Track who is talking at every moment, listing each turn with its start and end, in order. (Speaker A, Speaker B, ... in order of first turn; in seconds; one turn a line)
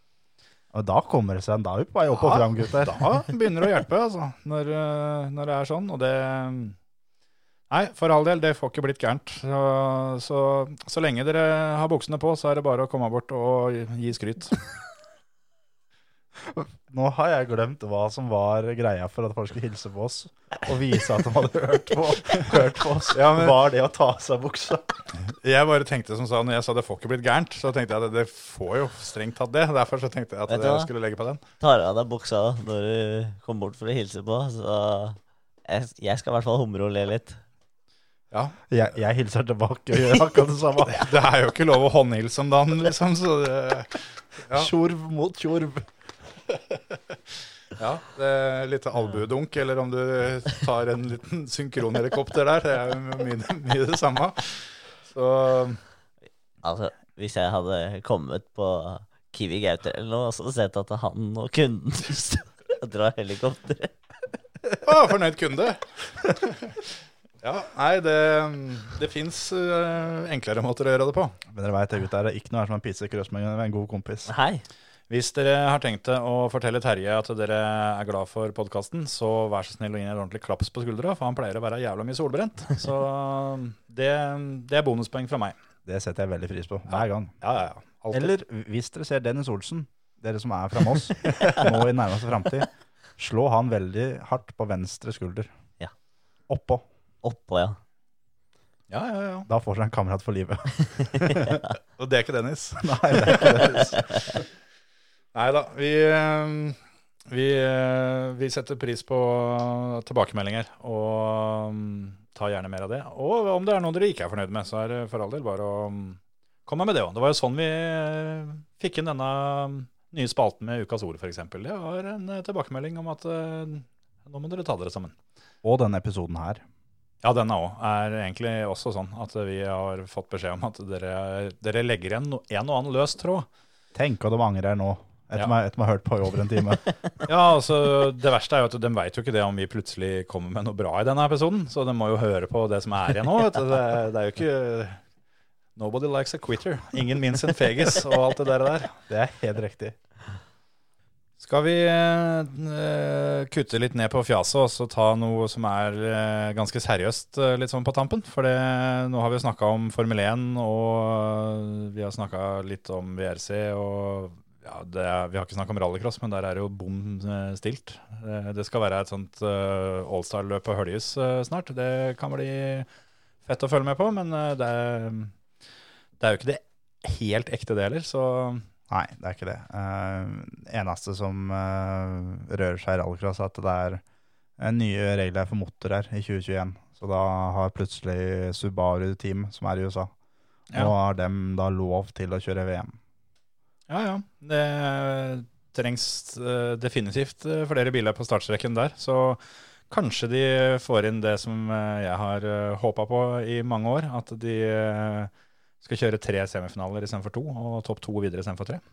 Speaker A: 0.7-3.2
Speaker B: 2.1-6.8
Speaker B: 7.7-14.6
Speaker A: 16.4-25.1
Speaker B: 23.1-23.6
Speaker B: 25.2-31.4
Speaker C: 30.5-30.9
Speaker C: 31.6-37.4
Speaker B: 38.3-38.5
Speaker A: 38.7-41.0
Speaker B: 40.9-44.7
Speaker A: 44.5-45.9
Speaker B: 47.7-55.8
Speaker C: 56.6-63.9
Speaker B: 64.8-66.8
Speaker B: 67.4-71.4
Speaker A: 71.5-74.3
Speaker C: 74.3-74.6
Speaker B: 75.1-85.5
Speaker A: 85.8-87.3
Speaker B: 86.9-88.3
Speaker A: 88.1-95.5
Speaker A: 96.5-96.8
Speaker C: 97.2-97.8
Speaker B: 98.9-99.5
Speaker A: 99.5-101.6
Speaker B: 102.0-104.4
Speaker A: 102.8-104.0
Speaker B: 105.3-125.2
Speaker A: 125.6-126.6
Speaker B: 127.2-133.5
Speaker A: 133.9-136.9
Speaker B: 137.2-145.0
Speaker B: 145.8-148.9
Speaker A: 149.1-149.9
Speaker B: 151.4-172.9
Speaker B: 173.4-175.3
Speaker B: 176.2-178.7
Speaker A: 178.9-184.0
Speaker A: 184.6-190.1
Speaker A: 190.7-193.0
Speaker B: 193.9-205.3
Speaker B: 205.8-208.8